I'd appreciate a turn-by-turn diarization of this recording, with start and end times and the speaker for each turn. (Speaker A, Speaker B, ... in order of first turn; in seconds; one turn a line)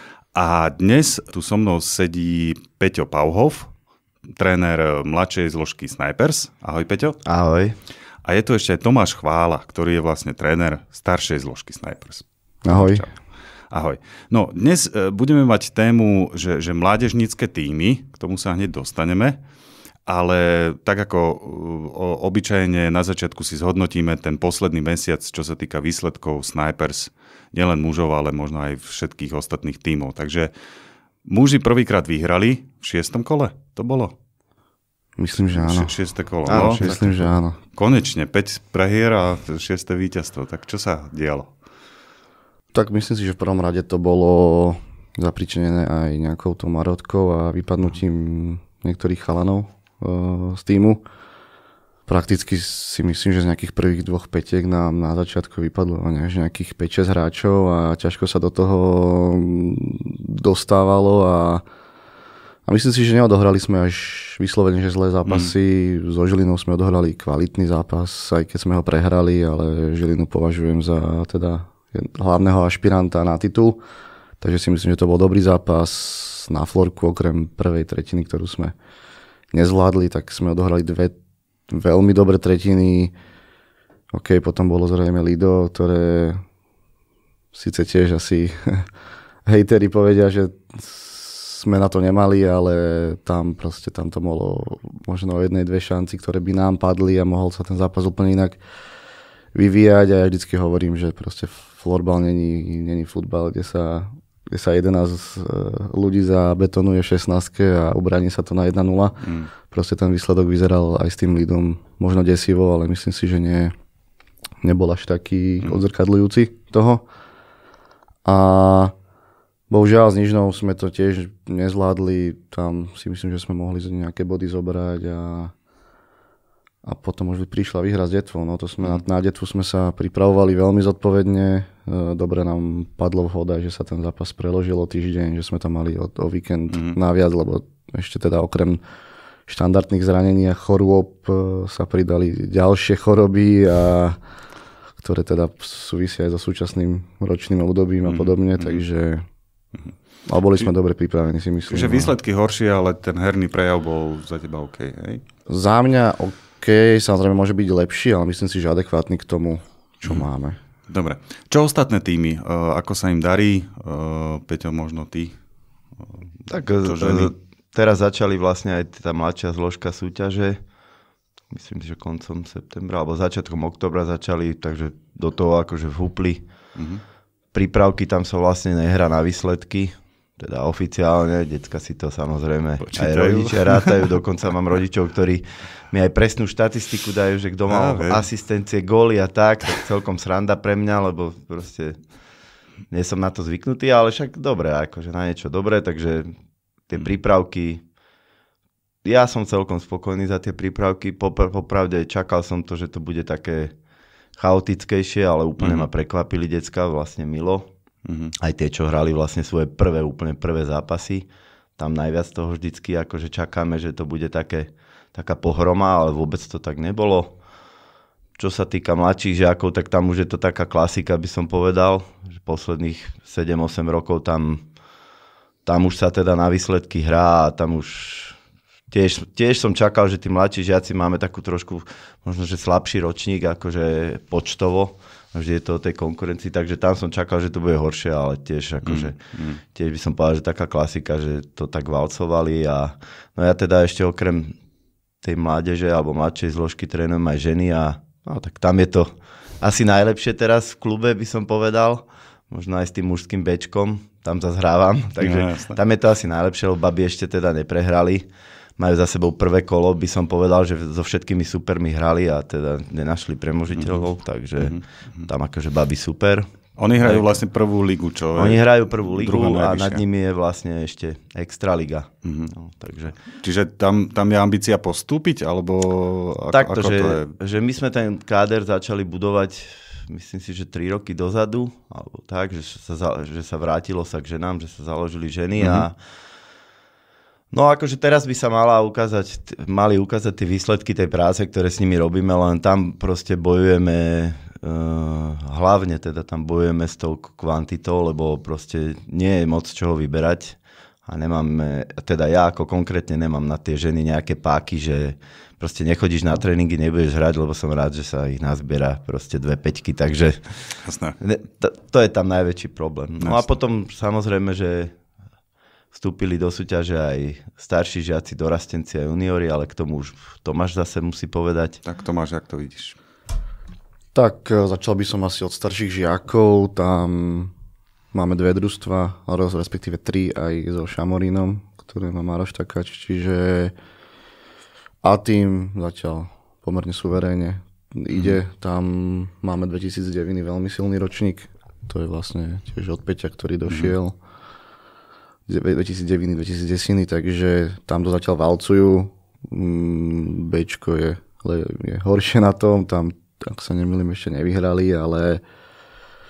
Speaker A: 0.3-3.7
Speaker A: 4.3-7.2
Speaker B: 7.2-7.8
Speaker A: 8.2-13.1
Speaker C: 12.6-13.0
Speaker A: 13.7-19.4
Speaker A: 20.1-30.5
Speaker A: 31.2-34.1
Speaker C: 35.2-35.9
Speaker A: 35.5-41.5
Speaker B: 36.5-36.9
Speaker C: 36.5-37.6
Speaker C: 42.7-51.0
Speaker C: 52.1-61.6
Speaker C: 62.7-73.8
Speaker A: 65.3-65.5
Speaker C: 74.4-78.7
Speaker C: 79.5-81.2
Speaker C: 81.7-83.1
Speaker C: 84.1-86.4
Speaker C: 87.5-88.9
Speaker C: 89.5-98.6
Speaker C: 99.5-113.7
Speaker A: 109.2-109.5
Speaker C: 114.6-117.0
Speaker C: 118.2-118.9
Speaker C: 119.7-125.5
Speaker C: 126.8-138.8
Speaker A: 136.7-137.0
Speaker C: 139.5-144.2
Speaker C: 145.0-149.2
Speaker A: 148.0-148.8
Speaker C: 150.3-152.1
Speaker A: 151.7-155.2
Speaker C: 155.5-160.6
Speaker A: 160.9-165.3
Speaker A: 166.1-167.3
Speaker B: 166.5-170.6
Speaker B: 171.5-176.4
Speaker A: 176.8-177.0
Speaker B: 177.5-192.0
Speaker A: 182.8-184.1
Speaker A: 187.7-188.2
Speaker B: 192.9-196.3
Speaker B: 196.9-197.8
Speaker B: 199.0-203.7
Speaker B: 204.4-207.7
Speaker A: 205.6-205.9
Speaker A: 208.0-208.3
Speaker B: 208.4-211.2
Speaker B: 211.8-217.3
Speaker B: 218.4-224.6
Speaker B: 225.7-228.4
Speaker B: 228.9-239.2
Speaker A: 238.8-239.6
Speaker B: 239.7-244.5
Speaker B: 245.2-258.2
Speaker A: 255.2-255.8
Speaker B: 258.8-266.5
Speaker A: 263.8-264.0
Speaker A: 264.6-265.3
Speaker A: 266.8-270.0
Speaker B: 267.0-267.4
Speaker B: 268.3-273.1
Speaker A: 272.2-272.5
Speaker A: 273.3-277.3
Speaker B: 276.5-285.9
Speaker A: 285.6-285.9
Speaker B: 287.5-310.4
Speaker A: 310.8-311.1
Speaker B: 311.2-314.9
Speaker A: 313.2-313.4
Speaker B: 315.9-321.8
Speaker A: 321.8-323.0
Speaker C: 324.1-327.5
Speaker C: 328.1-333.7
Speaker C: 335.0-344.1
Speaker A: 343.7-343.9
Speaker C: 345.5-355.4